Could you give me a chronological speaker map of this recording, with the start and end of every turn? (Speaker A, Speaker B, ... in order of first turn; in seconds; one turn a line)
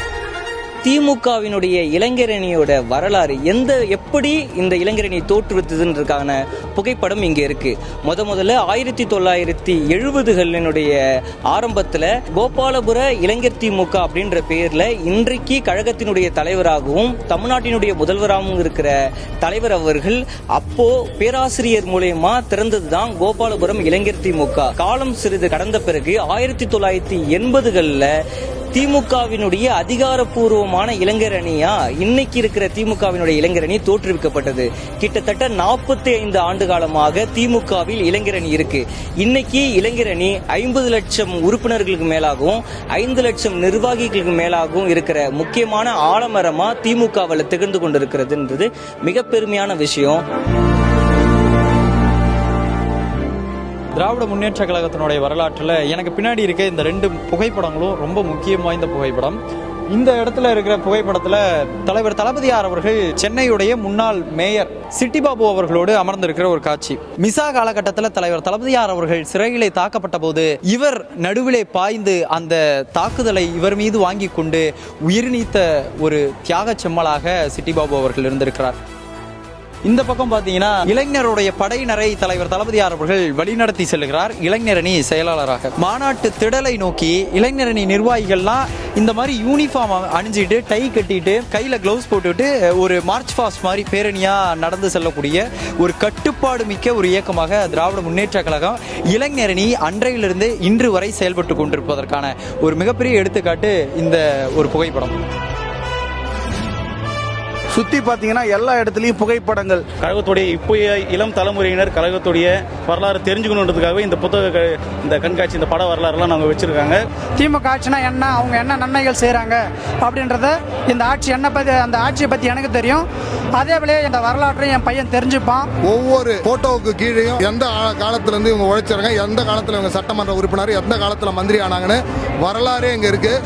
Speaker A: 0.8-10.9
Speaker A: 11.5-28.1
Speaker A: 28.7-50.2
Speaker B: 53.9-59.4
Speaker B: 59.9-78.8
Speaker B: 79.8-105.2
Speaker C: 107.7-109.9
Speaker D: 110.0-117.0
Speaker E: 117.4-123.0
Speaker E: 123.6-125.7
Speaker F: 125.8-133.4